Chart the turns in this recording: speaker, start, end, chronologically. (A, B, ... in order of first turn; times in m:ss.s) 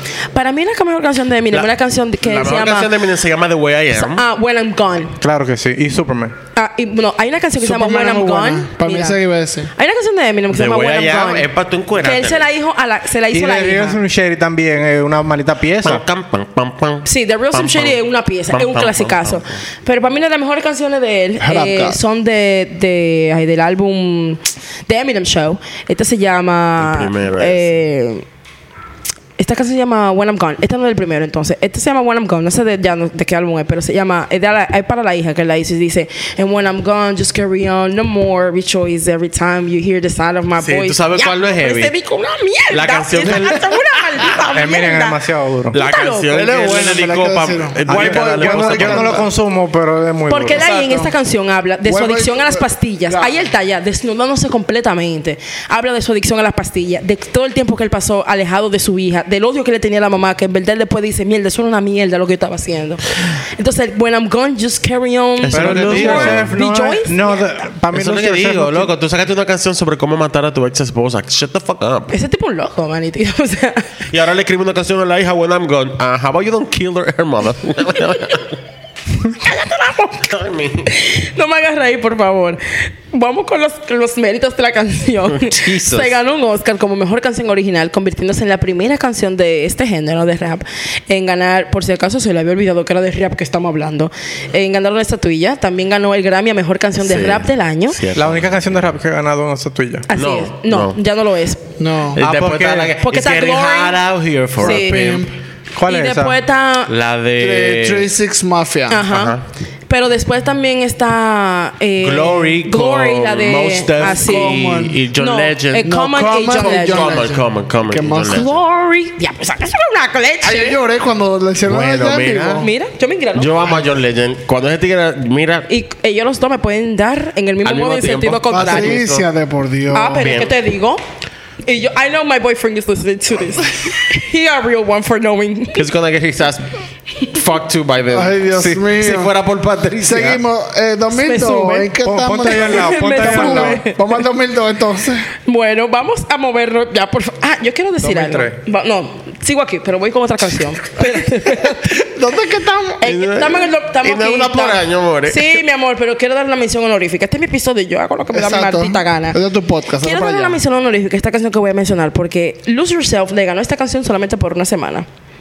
0:00.3-0:02.9 A
0:02.2-0:04.2 B
0:03.9-0:05.2 A
0:05.2-0:06.3 C
0:06.5-0:09.2 A
0:07.6-0:09.7 D
0:09.7-0:11.5 A
0:10.5-0:12.5 B
0:12.0-0:14.0 A
0:13.3-0:16.0 C
0:15.8-0:19.6 B
0:17.0-0:28.2 A
0:21.4-0:22.0 D
0:26.8-0:27.7 B
0:29.4-0:45.2 A
0:40.6-0:41.9 B
0:42.7-0:44.4 B
0:44.5-0:45.8 C
0:45.7-0:46.4 A
0:45.7-0:49.2 B
0:46.3-0:49.3 D
0:47.9-0:50.7 C
0:50.3-1:07.4 A
0:50.5-0:51.1 D
0:51.8-0:53.4 D
1:05.4-1:06.5 B
1:05.5-1:08.9 C
1:07.9-1:12.1 B
1:12.1-1:14.0 A
1:14.1-1:18.6 B
1:19.2-1:20.3 A
1:20.2-1:20.9 B
1:20.9-1:38.0 A
1:25.3-1:26.1 B
1:37.0-1:38.5 B
1:38.1-1:40.1 C
1:40.1-1:41.6 A
1:40.1-1:41.0 B
1:41.8-1:42.2 D
1:42.1-1:45.3 B
1:42.2-1:43.0 C
1:43.0-1:44.0 A
1:44.6-1:45.2 A
1:44.6-1:45.3 D
1:45.7-1:46.4 C
1:45.8-1:46.9 A
1:46.9-1:48.1 B
1:47.4-1:49.0 D
1:48.9-1:49.4 A
1:49.1-1:49.4 B
1:49.9-1:54.6 A
1:52.0-1:55.9 B
1:54.0-1:55.0 D
1:55.2-1:57.2 A
1:55.8-1:58.6 D
1:56.5-1:58.5 B
1:58.3-2:00.8 A
2:00.4-2:02.7 D
2:01.6-2:02.7 B
2:02.6-2:03.8 A
2:03.3-2:05.7 B
2:05.7-2:09.0 A
2:07.6-2:09.3 B
2:08.5-2:10.3 D
2:09.9-2:11.0 A
2:10.2-2:10.6 B
2:11.6-2:15.9 A
2:15.7-2:16.7 B
2:17.2-2:20.4 B
2:18.1-2:19.3 D
2:20.0-2:25.3 D
2:21.1-2:21.9 A
2:22.0-2:23.8 C
2:22.4-2:24.2 A
2:25.4-2:32.0 A
2:28.0-2:28.6 C
2:31.8-2:33.0 D
2:33.0-2:39.4 A
2:33.0-2:35.6 B
2:38.3-2:40.6 D
2:40.0-2:45.0 A